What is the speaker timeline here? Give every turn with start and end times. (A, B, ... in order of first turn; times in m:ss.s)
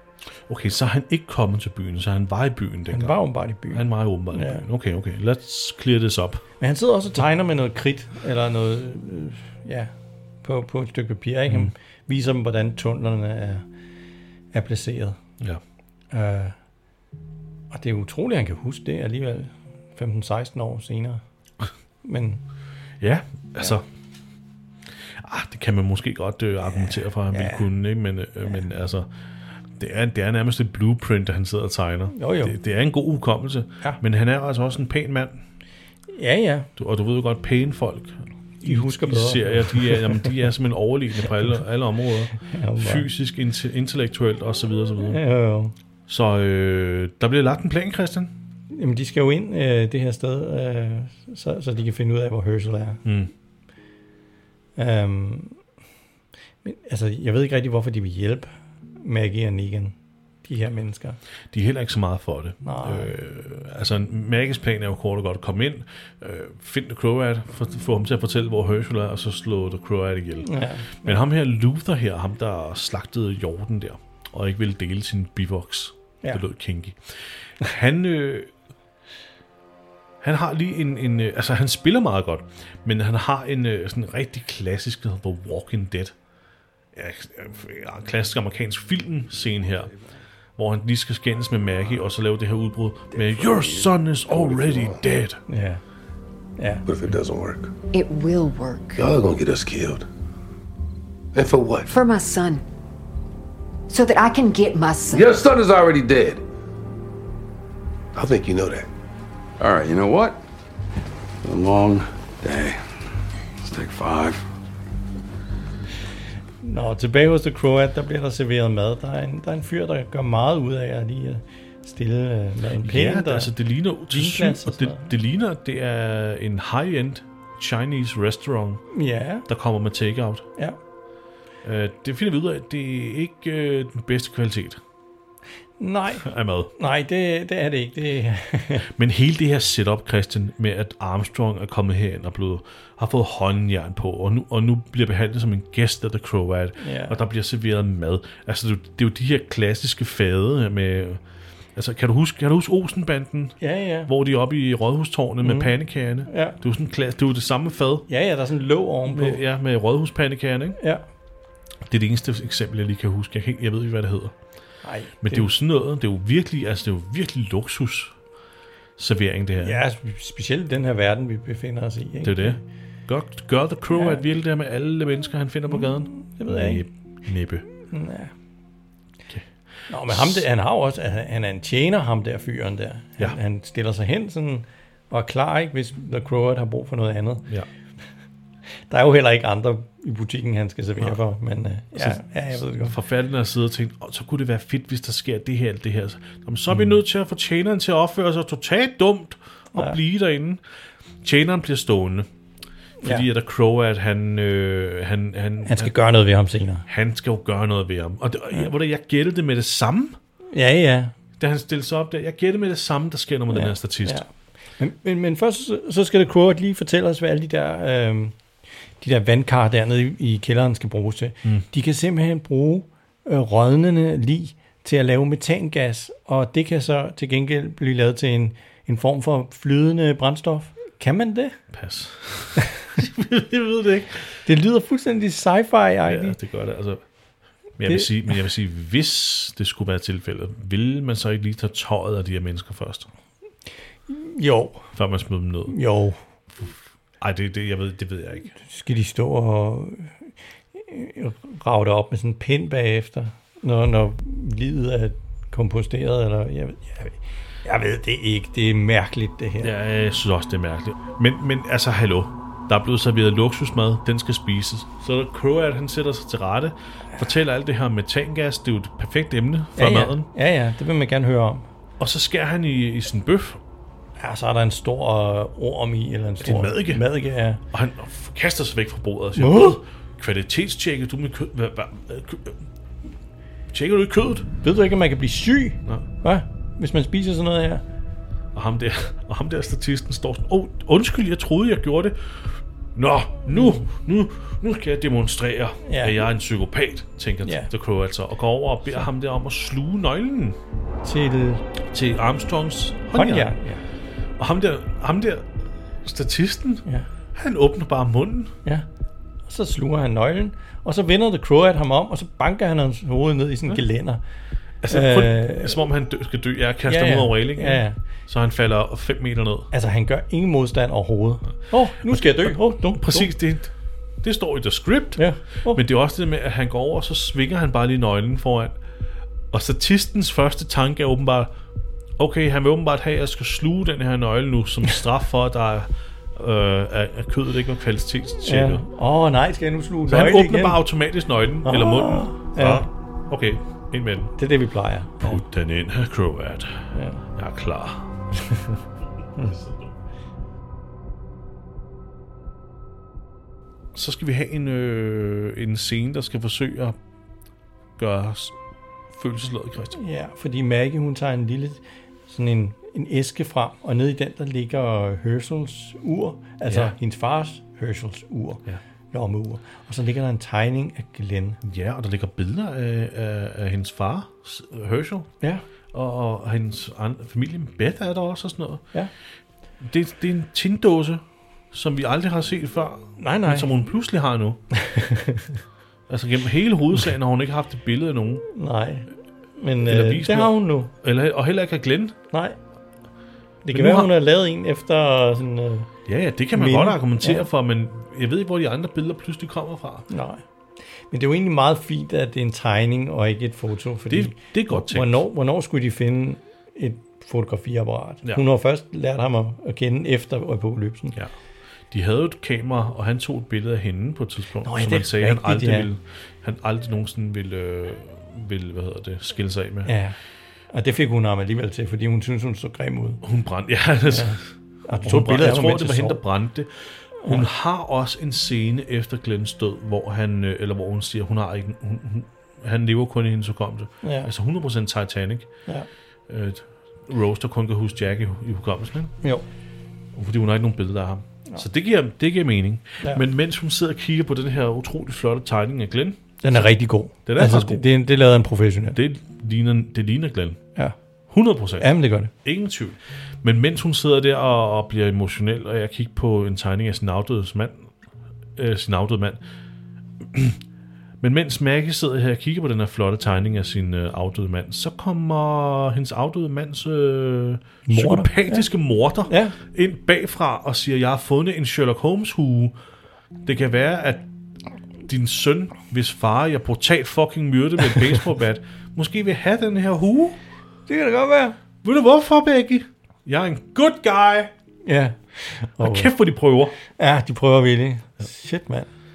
0:00.5-0:03.2 A
0:02.9-0:04.6 B
0:03.7-0:06.4 A
0:06.6-0:09.9 B
0:10.4-0:13.6 B
0:14.5-0:15.2 B
0:16.1-0:16.6 B
0:17.7-0:21.2 B
0:22.0-0:22.4 B
0:23.0-0:23.8 A
0:25.2-0:29.1 A
0:26.7-0:27.6 B
0:29.8-0:35.4 A
0:32.1-0:32.6 B
0:36.1-0:36.7 B
0:36.8-0:45.2 A
0:38.6-0:40.3 B
0:42.4-0:43.1 B
0:45.0-0:45.7 B
0:46.1-0:48.3 A
0:48.7-0:53.0 B
0:53.0-0:53.3 A
0:54.8-0:55.6 B
0:56.6-1:01.2 B
1:01.5-1:18.5 A
1:02.6-1:03.1 B
1:10.4-1:11.2 B
1:20.2-1:26.1 A
1:27.0-1:29.9 A
1:30.6-1:35.4 A
1:34.5-1:34.9 C
1:35.5-1:35.8 B
1:36.6-1:36.8 B
1:36.9-1:37.7 C
1:37.9-1:39.1 D
1:39.0-1:40.0 C
1:41.3-1:41.9 C
1:41.9-1:42.6 D
1:43.9-1:45.3 D
1:45.1-1:46.4 C
1:48.1-1:48.9 C
1:49.6-1:50.4 E
1:51.4-1:52.8 E
1:53.6-1:54.4 E
1:56.6-2:03.5 B
2:02.8-2:08.8 A
2:04.1-2:05.1 B
2:08.9-2:09.5 B
2:09.5-2:10.4 A
2:11.6-2:14.8 A
2:15.8-2:18.9 B
2:16.2-2:16.7 A
2:19.0-2:31.2 A
2:26.8-2:27.2 B
2:31.8-2:38.1 A
2:33.6-2:34.1 B
2:35.4-2:35.7 B
2:36.3-2:36.6 B
2:38.1-2:39.4 B
2:39.1-2:40.8 A
2:41.9-2:44.3 A
2:44.8-2:45.5 B
2:45.2-2:48.1 A
2:49.0-2:49.8 A
2:49.6-2:52.6 B
2:52.2-2:57.7 A
2:53.9-2:54.2 B
2:55.7-2:56.8 B
2:57.9-2:58.3 B
2:59.9-3:07.5 B
3:00.1-3:00.4 A
3:08.9-3:13.0 B
3:12.0-3:20.6 A
3:21.2-3:22.3 A
3:23.0-3:25.9 A
3:25.7-3:26.8 B
3:26.9-3:30.2 A
3:30.5-3:31.1 B
3:31.4-3:34.2 A
3:33.5-3:34.3 B
3:34.8-3:38.4 B
3:39.0-3:51.6 B
3:51.7-3:54.4 A
3:54.5-3:56.4 B
3:56.1-3:57.0 A
3:57.8-4:03.1 A
4:04.1-4:04.9 B
4:05.0-4:05.8 A
4:05.7-4:06.2 B
4:06.6-4:08.5 A
4:08.6-4:10.1 B
4:10.8-4:19.7 B
4:19.6-4:30.3 A
4:29.8-4:31.7 B
4:32.0-4:33.6 A
4:34.2-4:37.6 B
4:36.4-4:37.0 A
4:37.7-4:42.6 A
4:39.4-4:39.8 B
4:43.7-4:44.5 A
4:44.6-4:47.8 B
4:48.5-4:52.2 A
4:53.0-5:00.6 A
4:53.5-4:53.8 B
4:55.8-4:56.2 B
5:01.0-5:01.6 B
5:01.9-5:03.6 A
5:03.1-5:03.8 B
5:04.4-5:05.5 A
5:06.0-5:08.5 A
5:09.5-5:14.2 B
5:14.8-5:19.7 A
5:14.9-5:15.8 B
5:16.9-5:18.0 B
5:19.7-5:23.3 B
5:23.0-5:28.8 A
5:25.2-5:25.8 B
5:29.5-5:31.5 A
5:32.2-5:38.8 A
5:38.4-5:40.8 B
5:40.1-5:44.3 A
5:41.6-5:42.9 B
5:44.4-5:45.4 B
5:45.2-5:48.1 A
5:46.9-5:47.2 B
5:49.4-5:49.9 A
5:53.9-5:57.0 A
5:58.0-5:58.6 A
5:59.1-6:00.0 A
6:00.0-6:11.6 B
6:11.6-6:15.3 A
6:15.9-6:18.8 A
6:19.8-6:24.6 A
6:23.2-6:23.7 B
6:24.8-6:25.6 B
6:26.1-6:28.4 A
6:28.5-6:30.9 B
6:29.8-6:32.1 A
6:32.3-6:32.6 B
6:33.7-6:35.9 B
6:33.7-6:34.1 A
6:36.1-6:40.1 A
6:36.6-6:37.5 B
6:40.1-6:40.4 B
6:41.1-6:51.2 B
6:44.1-6:45.2 A
6:51.9-6:59.9 A
6:54.6-6:55.9 B
6:59.9-7:00.2 B
7:00.7-7:03.2 B
7:03.2-7:04.5 A
7:04.1-7:06.2 B
7:05.0-7:15.5 A
7:14.0-7:14.3 B
7:16.3-7:19.1 A
7:20.1-7:26.7 A
7:26.4-7:29.0 B
7:27.3-7:27.8 A
7:28.9-7:30.6 A
7:31.3-7:31.9 A
7:31.8-7:32.3 B
7:32.4-7:37.9 A
7:38.6-7:39.4 A
7:40.3-7:40.6 A
7:41.2-7:52.7 A
7:47.9-7:48.7 B
7:49.3-7:49.6 B
7:53.5-7:54.2 A
7:55.1-8:00.4 A
8:00.9-8:01.6 B
8:01.8-8:04.5 A
8:04.8-8:06.1 B
8:05.8-8:06.8 A
8:06.8-8:08.9 B